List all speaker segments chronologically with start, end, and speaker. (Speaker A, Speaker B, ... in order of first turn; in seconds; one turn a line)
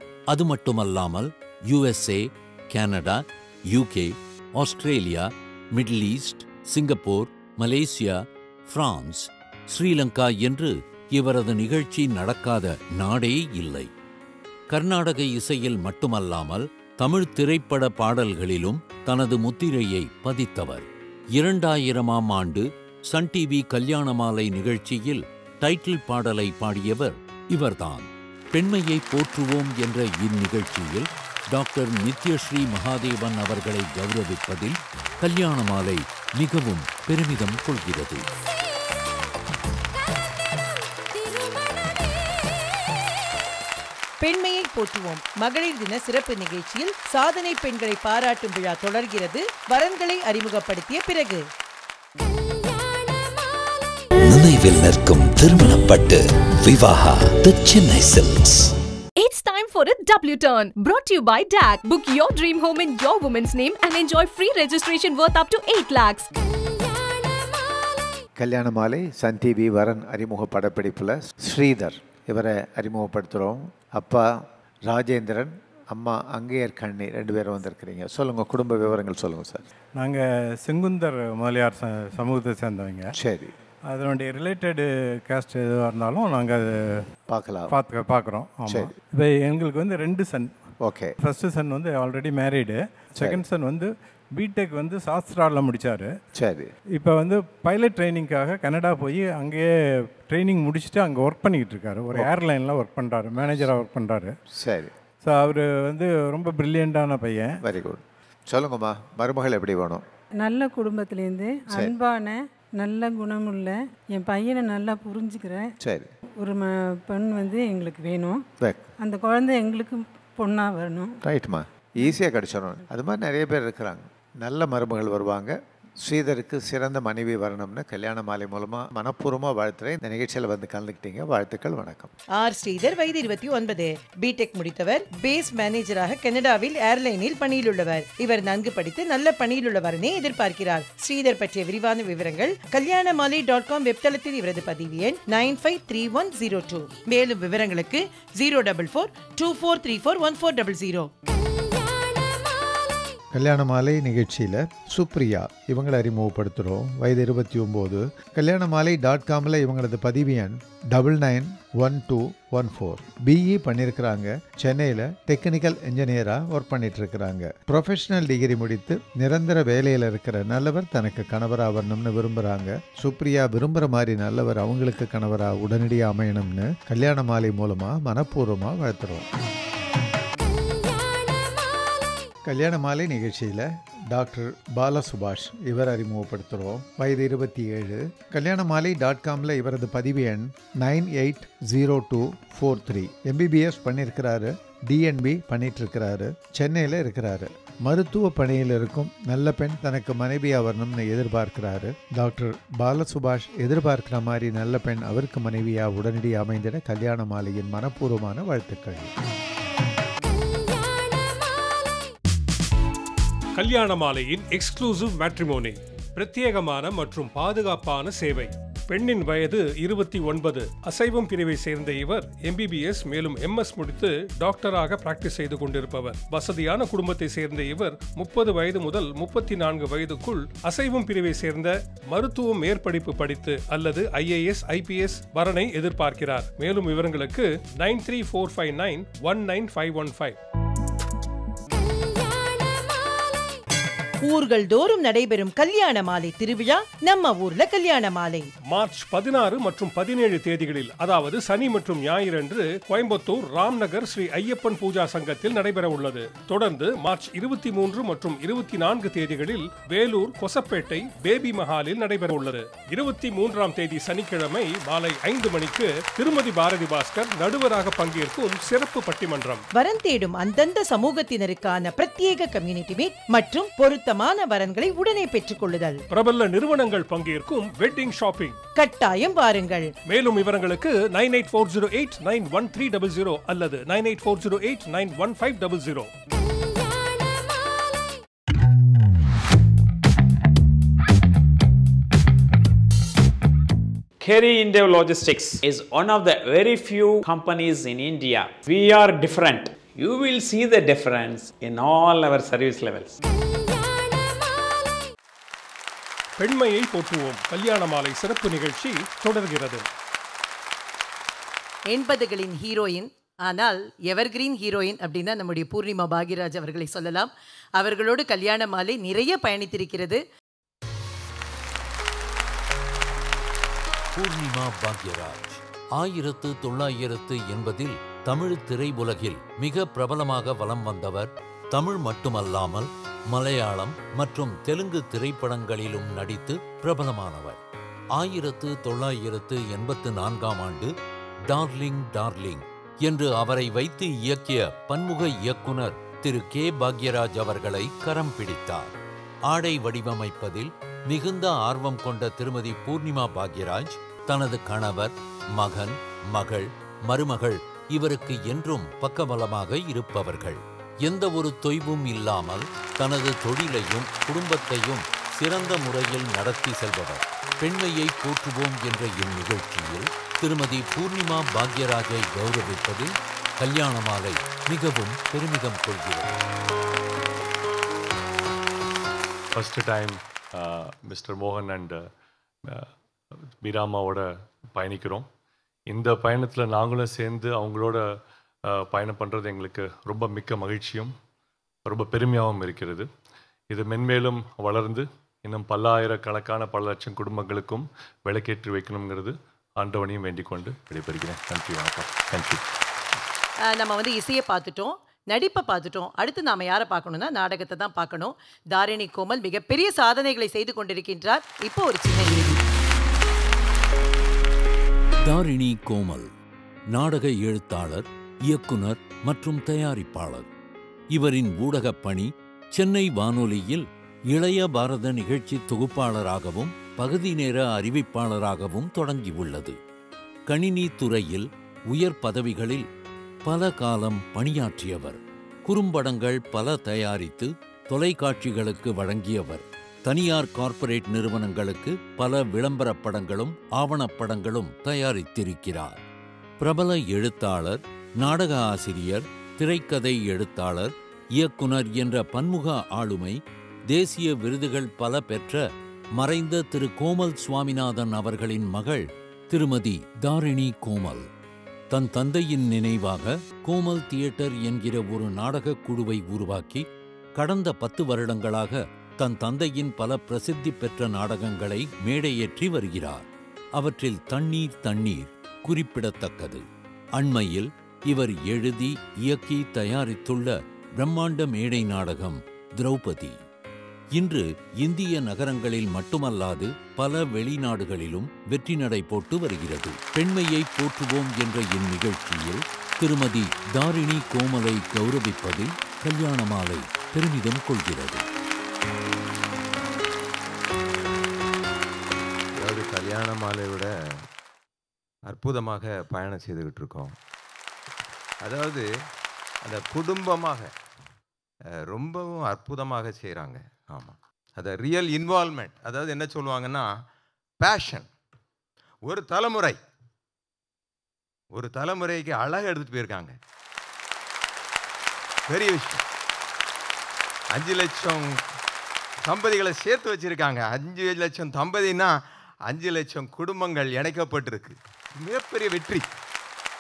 Speaker A: 0.3-13.9
Speaker A: 14.7-38.3
Speaker B: 38.5-39.2
Speaker B: 40.2-42.3
Speaker C: 44.2-51.4
Speaker B: 52.2-54.0
Speaker D: 54.2-58.7
Speaker B: 59.2-68.3
Speaker E: 68.4-79.7
Speaker F: 80.0-83.1
Speaker E: 83.1-83.5
Speaker F: 83.9-87.0
Speaker E: 87.3-87.7
Speaker F: 87.7-90.5
Speaker E: 88.7-88.9
Speaker E: 90.8-91.2
Speaker F: 91.2-96.1
Speaker E: 96.4-96.7
Speaker F: 97.0-99.7
Speaker F: 100.2-104.3
Speaker E: 104.5-104.9
Speaker F: 105.2-107.6
Speaker E: 107.6-110.0
Speaker G: 110.4-115.7
Speaker E: 115.8-116.1
Speaker G: 116.4-118.4
Speaker G: 119.0-121.2
Speaker E: 121.2-132.1
Speaker C: 132.4-151.1
Speaker B: 151.3-153.2
Speaker E: 153.3-179.3
Speaker B: 180.4-182.3
Speaker E: 182.4-209.1
Speaker B: 210.2-212.1
Speaker H: 213.6-240.4
Speaker B: 241.7-243.6
Speaker C: 244.2-248.5
Speaker H: 248.7-269.6
Speaker C: 269.8-276.0
Speaker H: 276.1-278.6
Speaker C: 278.8-279.9
Speaker H: 280.1-286.1
Speaker B: 286.3-288.1
Speaker I: 294.2-303.2
Speaker B: 303.3-305.1
Speaker H: 306.4-309.9
Speaker C: 311.9-320.2
Speaker A: 324.2-337.6
Speaker A: 338.2-340.9
Speaker A: 341.5-348.9
Speaker A: 349.5-376.4
Speaker J: 379.6-382.1
Speaker J: 383.6-385.3
Speaker J: 385.9-388.0
Speaker J: 388.7-391.1
Speaker J: 391.9-393.1
Speaker J: 393.7-402.6
Speaker C: 403.7-412.6
Speaker A: 415.2-416.3
Speaker A: 416.9-420.5
Speaker A: 421.1-429.8
Speaker A: 430.5-432.9
Speaker A: 433.4-446.0
Speaker A: 446.6-453.4
Speaker A: 453.9-455.6
Speaker A: 456.2-461.3
Speaker A: 461.9-466.9
Speaker A: 467.4-476.6
Speaker A: 477.2-483.4
Speaker A: 484.2-498.2
Speaker K: 502.6-503.9
Speaker K: 505.3-507.2
Speaker K: 508.4-508.9
Speaker K: 509.6-510.7
Speaker K: 511.9-516.9
Speaker K: 517.6-518.1
Speaker K: 519.1-519.8
Speaker K: 521.5-523.4
Speaker K: 525.5-526.0
Speaker K: 527.5-528.4
Speaker K: 529.2-536.1